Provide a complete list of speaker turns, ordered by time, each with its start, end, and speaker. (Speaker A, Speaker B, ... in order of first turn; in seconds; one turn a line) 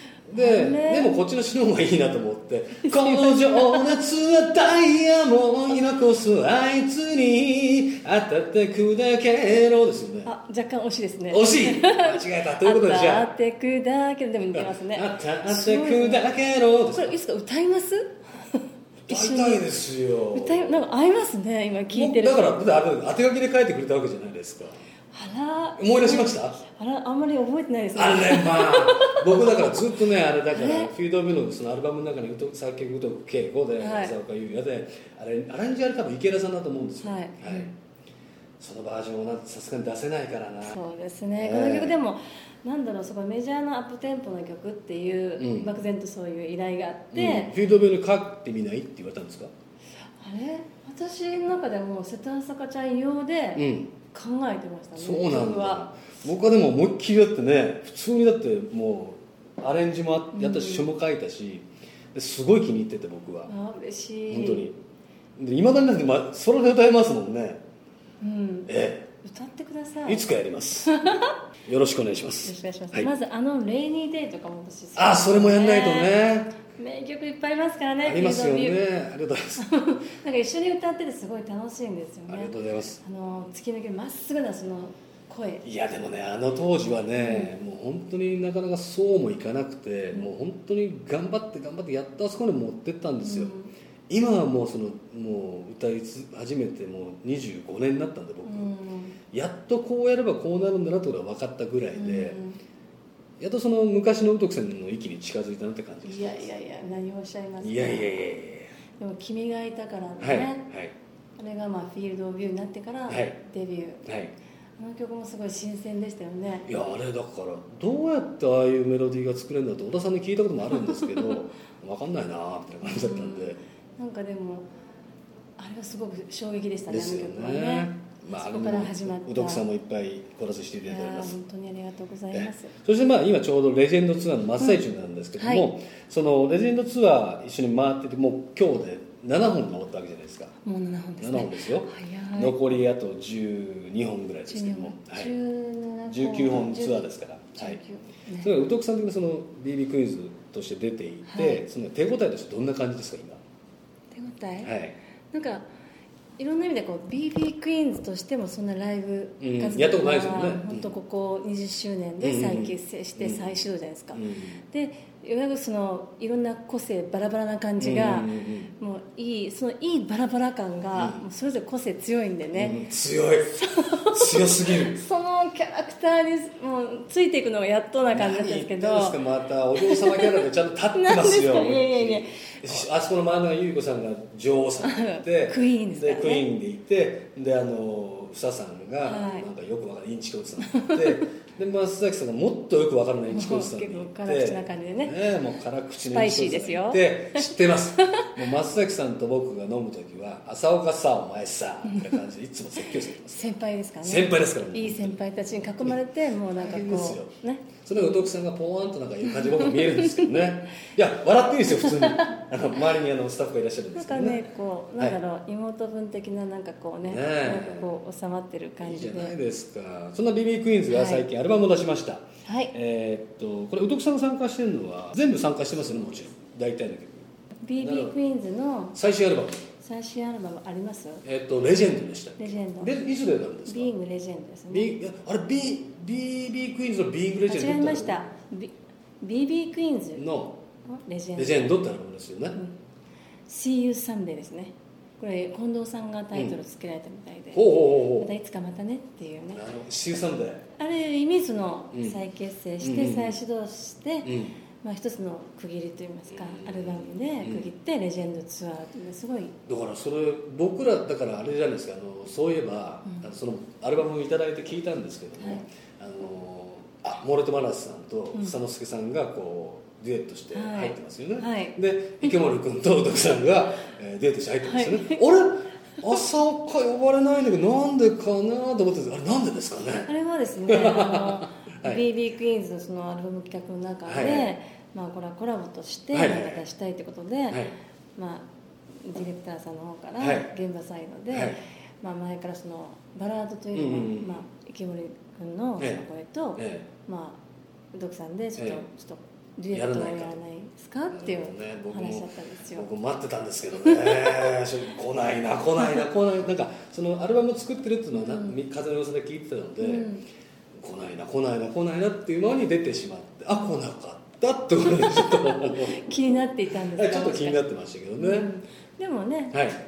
Speaker A: 0.3-10.3
Speaker B: 0.3-1.1
Speaker B: 2.8-3.9
Speaker B: 10.2-16.3
Speaker A: 11.3-13.3
Speaker A: 14.5-17.2
Speaker B: 16.9-19.6
Speaker A: 19.1-20.8
Speaker B: 20.3-22.4
Speaker A: 21.9-24.8
Speaker B: 25.1-29.8
Speaker A: 25.8-26.6
Speaker A: 27.9-37.7
Speaker B: 30.5-30.9
Speaker B: 33.8-34.1
Speaker B: 37.0-37.7
Speaker A: 38.6-40.8
Speaker B: 40.7-47.5
Speaker A: 41.4-42.0
Speaker A: 45.4-45.7
Speaker A: 47.1-49.5
Speaker B: 50.2-55.9
Speaker A: 53.5-53.9
Speaker A: 55.0-63.5
Speaker B: 60.3-60.9
Speaker B: 63.5-64.7
Speaker A: 64.3-64.8
Speaker A: 65.4-67.6
Speaker B: 68.2-70.2
Speaker A: 68.7-69.1
Speaker A: 70.0-71.0
Speaker B: 70.8-71.3
Speaker A: 71.7-73.1
Speaker B: 72.4-78.8
Speaker A: 75.0-76.6
Speaker A: 78.0-79.6
Speaker B: 79.6-85.6
Speaker A: 82.3-83.0
Speaker A: 85.6-93.5
Speaker B: 87.2-87.5
Speaker B: 93.2-93.7
Speaker A: 94.1-98.7
Speaker B: 98.4-99.2
Speaker A: 99.3-102.4
Speaker B: 101.9-102.6
Speaker A: 103.4-106.4
Speaker B: 106.0-108.3
Speaker A: 107.6-108.7
Speaker B: 109.0-110.7
Speaker A: 110.2-110.9
Speaker B: 111.4-114.0
Speaker A: 113.1-113.4
Speaker A: 114.0-114.3
Speaker B: 114.8-116.7
Speaker A: 116.7-123.6
Speaker B: 122.8-124.7
Speaker B: 125.6-129.6
Speaker A: 126.9-131.4
Speaker B: 130.8-132.7
Speaker A: 132.3-140.6
Speaker B: 135.4-135.7
Speaker B: 140.6-142.6
Speaker A: 141.2-145.3
Speaker B: 144.5-148.5
Speaker A: 146.1-147.8
Speaker A: 148.4-153.4
Speaker B: 151.3-151.6
Speaker B: 154.1-154.7
Speaker A: 154.6-154.9
Speaker B: 155.3-155.7
Speaker B: 156.4-172.8
Speaker A: 159.4-160.9
Speaker A: 162.2-163.6
Speaker A: 164.1-164.6
Speaker A: 167.8-168.7
Speaker A: 170.9-171.2
Speaker A: 172.5-175.0
Speaker B: 173.6-179.2
Speaker A: 178.1-203.5
Speaker B: 179.8-182.4
Speaker B: 184.8-186.4
Speaker B: 189.0-189.5
Speaker B: 190.7-191.0
Speaker B: 193.3-195.1
Speaker B: 196.1-198.3
Speaker B: 203.3-208.3
Speaker A: 204.0-205.2
Speaker A: 206.5-207.3
Speaker A: 207.8-214.4
Speaker B: 209.3-210.2
Speaker B: 211.7-212.4
Speaker B: 213.9-219.3
Speaker A: 217.0-217.9
Speaker A: 218.8-227.2
Speaker B: 220.9-221.2
Speaker B: 222.4-222.7
Speaker B: 227.6-229.0
Speaker A: 227.8-228.2
Speaker A: 228.9-229.6
Speaker B: 229.8-231.2
Speaker A: 231.2-233.9
Speaker B: 232.4-232.9
Speaker B: 233.7-234.9
Speaker A: 234.7-238.2
Speaker B: 237.5-240.2
Speaker A: 240.2-240.6
Speaker B: 240.9-241.7
Speaker A: 241.4-242.6
Speaker B: 243.5-249.6
Speaker A: 247.5-248.3
Speaker A: 249.5-250.7
Speaker B: 250.8-259.6
Speaker A: 251.9-252.2
Speaker A: 252.8-253.4
Speaker A: 254.2-254.6
Speaker A: 256.3-257.7
Speaker A: 259.6-280.1
Speaker B: 270.5-271.8
Speaker B: 274.6-275.2
Speaker B: 280.0-287.6
Speaker A: 280.7-282.0
Speaker A: 284.1-284.5
Speaker A: 286.1-286.6
Speaker A: 287.5-287.7
Speaker B: 288.1-288.5
Speaker B: 289.0-297.4
Speaker A: 290.2-290.5
Speaker A: 291.3-291.6
Speaker A: 293.7-294.4
Speaker A: 295.8-296.0
Speaker A: 296.6-296.9
Speaker B: 297.9-302.9
Speaker A: 298.6-298.8
Speaker A: 299.7-300.4
Speaker A: 301.1-310.1
Speaker B: 303.9-304.5
Speaker B: 308.1-308.6
Speaker B: 309.8-310.2
Speaker A: 310.8-316.0
Speaker B: 315.8-317.6
Speaker A: 316.9-318.5
Speaker B: 318.2-319.6
Speaker A: 319.5-319.8